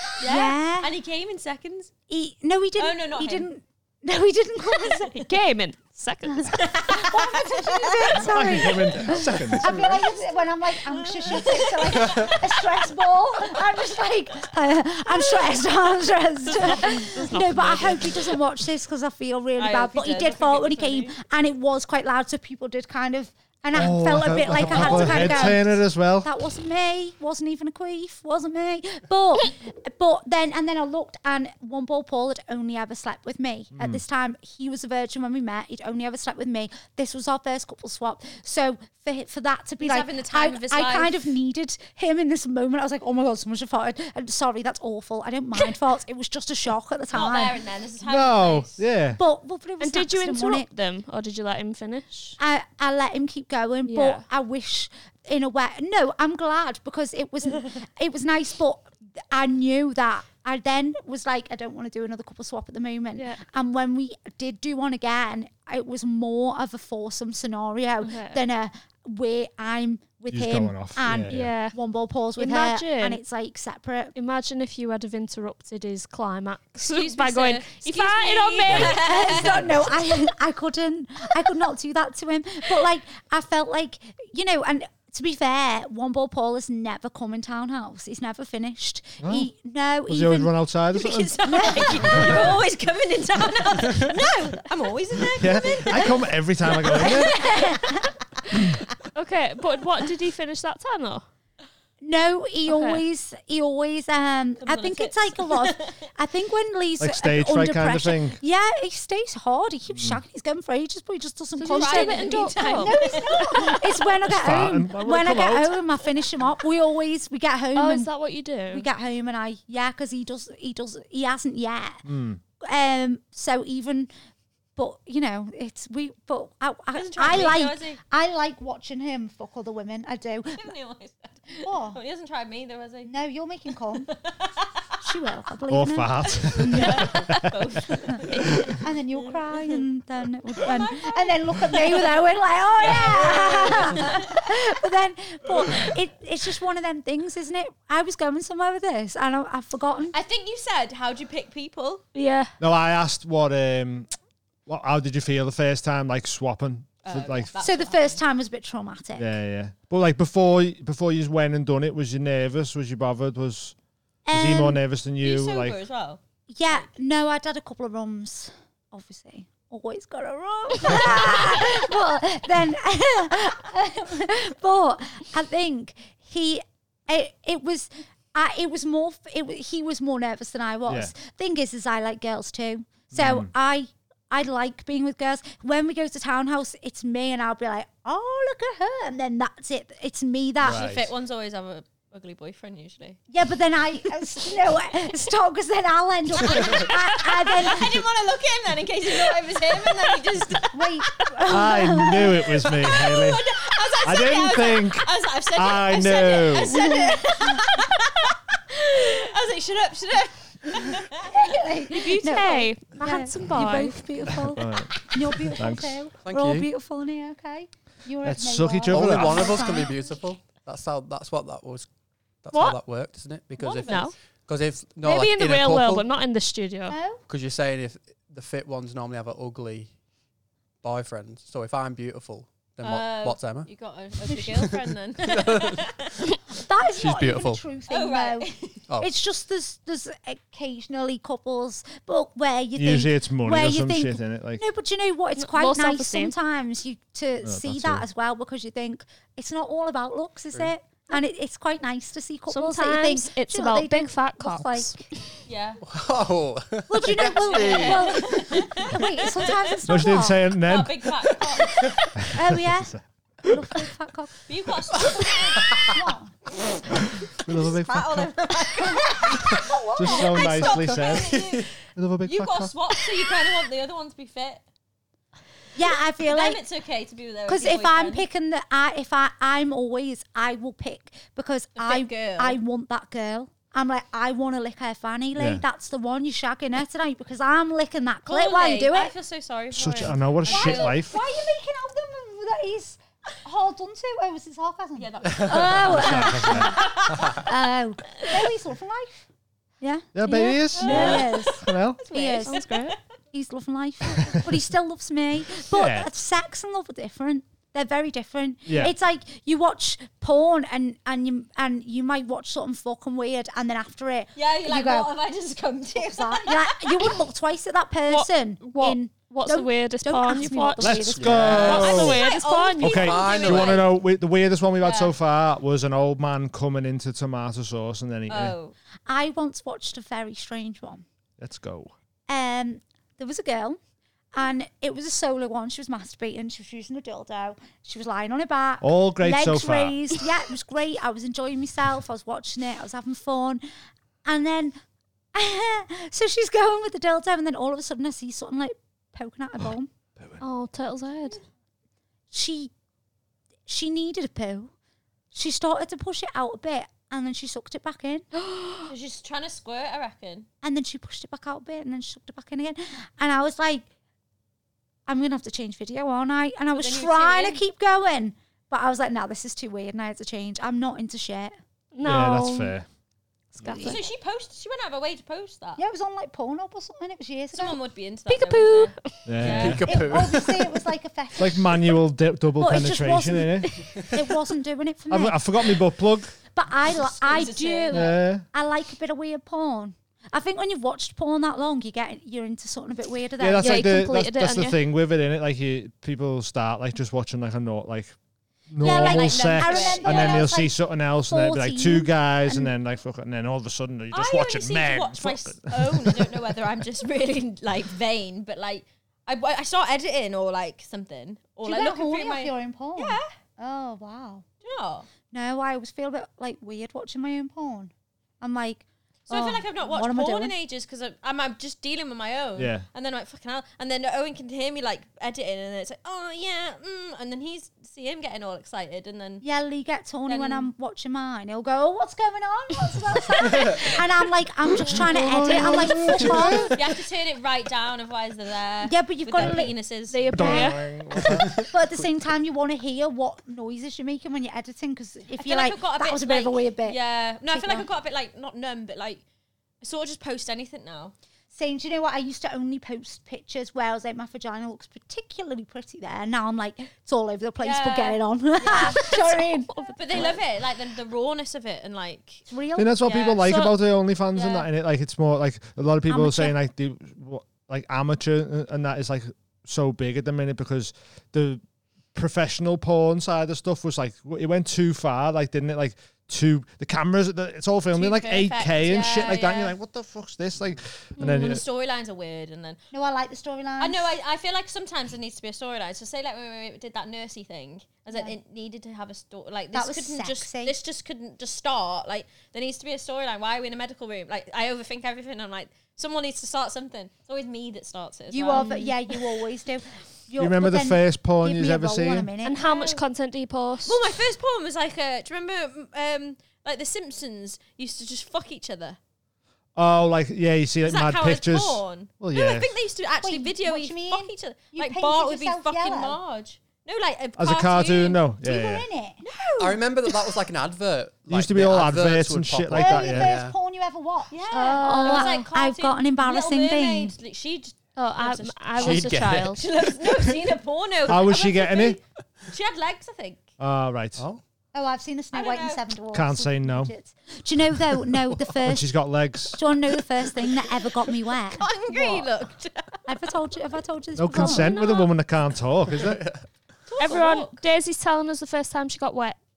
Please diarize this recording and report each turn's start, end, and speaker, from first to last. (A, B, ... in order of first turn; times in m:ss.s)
0:00.2-0:00.9 A
0:00.2-0:01.9 B
0:02.1-0:05.2 A
0:02.8-0:03.5 B
0:04.8-0:05.2 B
0:05.2-0:06.6 C
0:06.4-0:47.6 A
0:06.6-0:08.9 B
0:08.2-0:10.0 D
0:09.8-0:12.9 B
0:16.4-0:18.4 C
0:19.6-0:21.2 B
0:23.7-0:26.3 D
0:24.7-0:25.5 E
0:33.8-0:34.0 D
0:39.8-0:41.2 B
0:47.1-0:48.8 B
0:48.0-0:49.2 D
0:49.2-0:50.7 A
0:49.8-0:52.4 C
0:52.4-1:14.2 A
0:53.9-0:54.2 C
1:03.2-1:03.4 C
1:08.0-1:08.4 C
1:10.3-1:11.5 D
1:11.3-1:11.8 C
1:12.4-1:13.2 C
1:14.2-1:19.3 C
1:16.8-1:19.8 B
1:18.7-1:19.9 D
1:18.8-1:30.5 A
1:29.2-1:29.5 D
1:30.1-1:32.5 D
1:30.9-1:38.0 B
1:31.4-1:32.4 A
1:35.4-1:37.4 D
1:37.0-1:38.1 A
1:39.2-1:41.3 C
1:42.0-1:58.1 A
1:42.7-1:43.0 C
1:44.6-1:45.9 B
1:47.0-1:48.4 D
1:49.9-1:50.2 D
1:51.6-1:53.8 C
1:51.7-1:53.9 B
1:54.3-1:55.8 D
1:57.8-1:58.9 C
1:58.7-2:02.0 A
2:02.0-2:02.4 D
2:02.6-2:04.1 A
2:04.8-2:10.7 A
2:06.9-2:08.0 B
2:10.6-2:13.1 B
2:11.6-2:12.0 A
2:13.1-2:14.1 A
2:14.1-2:14.7 B
2:15.0-2:17.3 A
2:15.7-2:17.6 D
2:16.5-2:19.8 B
2:18.6-2:30.2 A
2:20.6-2:22.1 B
2:22.8-2:24.3 B
2:30.1-2:32.0 B
2:32.2-2:32.5 C
2:32.6-2:34.1 D
2:34.7-2:37.5 D
2:37.0-2:38.2 B
2:37.6-2:39.3 A
2:39.2-2:43.8 D
2:44.3-2:44.8 A
2:44.3-2:45.8 D
2:45.2-2:46.2 B
2:46.5-3:10.9 A
3:00.9-3:01.1 D
3:03.1-3:03.5 D
3:10.6-3:11.1 D
3:10.6-3:13.2 B
3:13.3-3:18.0 A
3:16.4-3:21.2 B
3:20.7-3:22.7 A
3:21.5-3:23.4 D
3:22.7-3:31.5 B
3:24.0-3:26.8 D
3:26.7-3:27.6 A
3:31.2-3:40.0 A
3:31.9-3:34.1 C
3:34.3-3:36.0 D
3:36.2-3:36.7 E
3:38.2-3:39.8 D
3:38.9-3:41.9 E
3:42.4-3:46.1 E
3:42.5-3:42.8 C
3:43.6-3:44.1 B
3:43.9-3:44.1 C
3:45.0-3:47.0 C
3:46.9-3:47.2 A
3:47.3-3:49.9 E
3:50.8-3:53.7 E
3:52.8-3:56.1 B
3:54.3-3:54.6 A
3:55.2-3:55.8 E
3:56.5-3:58.5 A
3:57.0-3:57.6 E
3:57.9-3:58.8 B
3:59.0-4:15.0 A
4:02.8-4:04.6 D
4:05.4-4:06.4 C
4:07.4-4:08.1 D
4:12.5-4:15.2 C
4:15.5-4:15.8 B
4:15.9-4:18.4 E
4:16.9-4:20.4 A
4:17.2-4:22.1 B
4:19.9-4:21.1 D
4:21.4-4:21.9 E
4:22.2-4:23.6 D
4:22.3-4:24.4 A
4:24.5-4:25.8 B
4:25.9-4:26.3 A
4:27.3-4:28.3 D
4:27.4-4:34.6 B
4:28.7-4:30.7 A
4:30.0-4:32.7 D
4:30.5-4:31.7 E
4:35.8-4:36.6 A
4:35.8-4:38.3 B
4:37.5-4:49.1 A
4:41.8-4:42.6 B
4:45.4-4:45.6 D
4:48.3-4:51.4 B
4:49.7-4:51.2 D
4:50.4-4:59.2 A
4:55.0-4:57.3 B
4:55.8-4:57.2 D
4:59.8-5:02.7 A
5:00.2-5:02.0 D
5:00.8-5:03.0 B
5:02.5-5:03.0 C
5:03.3-5:15.1 A
5:05.7-5:06.1 D
5:08.7-5:09.0 D
5:14.4-5:17.2 B
5:16.0-5:21.9 A
5:18.1-5:23.1 C
5:20.8-5:22.2 D
5:21.2-5:22.2 E
5:21.6-5:24.0 B
5:22.8-5:28.6 D
5:22.9-5:23.9 E
5:24.8-5:25.2 B
5:28.3-5:28.8 B
5:29.1-5:31.0 A
5:31.4-5:31.9 D
5:32.3-5:33.8 A
5:34.3-5:43.6 A
5:38.8-5:40.2 D
5:44.2-5:44.8 A
5:45.3-5:49.9 A
5:49.6-5:50.4 D
5:50.4-5:51.4 C
5:52.3-5:52.7 A
5:53.7-5:54.7 A
5:55.3-5:58.3 A
5:58.6-5:58.8 C
5:58.9-6:00.5 B
6:00.6-6:03.9 A
6:05.1-6:11.5 A
6:06.8-6:07.6 B
6:11.9-6:12.7 C
6:12.0-6:12.9 D
6:13.6-6:14.0 A
6:13.6-6:14.0 C
6:13.8-6:15.8 B
6:15.8-6:17.8 A
6:17.5-6:19.8 B
6:18.3-6:19.4 C
6:19.3-6:19.9 D
6:19.4-6:20.7 E
6:19.9-6:22.0 A
6:21.4-6:23.8 D
6:22.6-6:25.8 A
6:25.1-6:26.4 D
6:26.5-6:34.0 A
6:27.1-6:28.1 B
6:27.9-6:28.4 D
6:33.4-6:38.2 D
6:33.6-6:34.8 C
6:38.7-6:46.4 D
6:38.8-6:40.5 B
6:38.8-6:42.7 A
6:44.1-6:53.3 B
6:51.6-6:54.4 A
6:54.6-6:55.1 B
6:55.3-7:00.6 A
6:59.3-7:09.4 B
7:02.6-7:02.9 D
7:09.4-7:16.8 A
7:10.3-7:10.7 B
7:15.0-7:16.7 D
7:15.1-7:16.2 C
7:16.7-7:20.3 B
7:18.8-7:19.8 A
7:20.1-7:20.8 C
7:20.3-7:21.6 D
7:20.3-7:20.8 A
7:21.2-7:21.7 E
7:21.5-7:27.0 A
7:25.4-7:29.2 B
7:27.5-7:27.9 A
7:29.8-7:31.2 B
7:31.5-7:40.3 A
7:37.6-7:39.1 B
7:38.9-7:40.4 C
7:40.0-7:42.4 B
7:42.5-7:43.0 A
7:42.8-7:51.6 D
7:43.0-7:43.8 B
7:44.3-7:44.7 B
7:46.1-7:46.6 A
7:52.1-8:01.6 D
7:57.9-7:59.8 B
8:01.2-8:01.6 C
8:01.2-8:02.8 B
8:02.9-8:04.1 A
8:03.8-8:19.4 B
8:09.7-8:10.8 A
8:18.3-8:22.6 A
8:18.6-8:18.9 C
8:20.4-8:22.3 D
8:22.4-8:24.0 C
8:22.6-8:23.0 B
8:23.8-8:29.0 B
8:29.8-8:32.8 D
8:30.8-8:38.2 B
8:33.2-8:36.2 A
8:37.4-8:38.9 D
8:38.4-8:39.3 A
8:39.3-8:39.8 B
8:39.6-8:43.6 E
8:41.3-8:43.4 D
8:42.7-8:47.1 A
8:44.3-8:53.4 B
8:44.5-8:45.5 C
8:48.0-8:49.7 C
8:48.7-8:50.2 E
8:51.1-8:52.0 D
8:53.6-8:54.2 D
8:54.2-8:54.4 E
8:54.7-8:58.9 A
8:55.3-8:55.8 B
8:56.1-8:56.9 D
8:58.6-8:59.6 D
8:59.5-9:02.3 A
9:01.5-9:03.1 B
9:03.1-9:04.9 A
9:04.2-9:06.3 D
9:04.3-9:05.1 C
9:06.0-9:06.4 E
9:06.9-9:07.6 B
9:07.0-9:09.4 C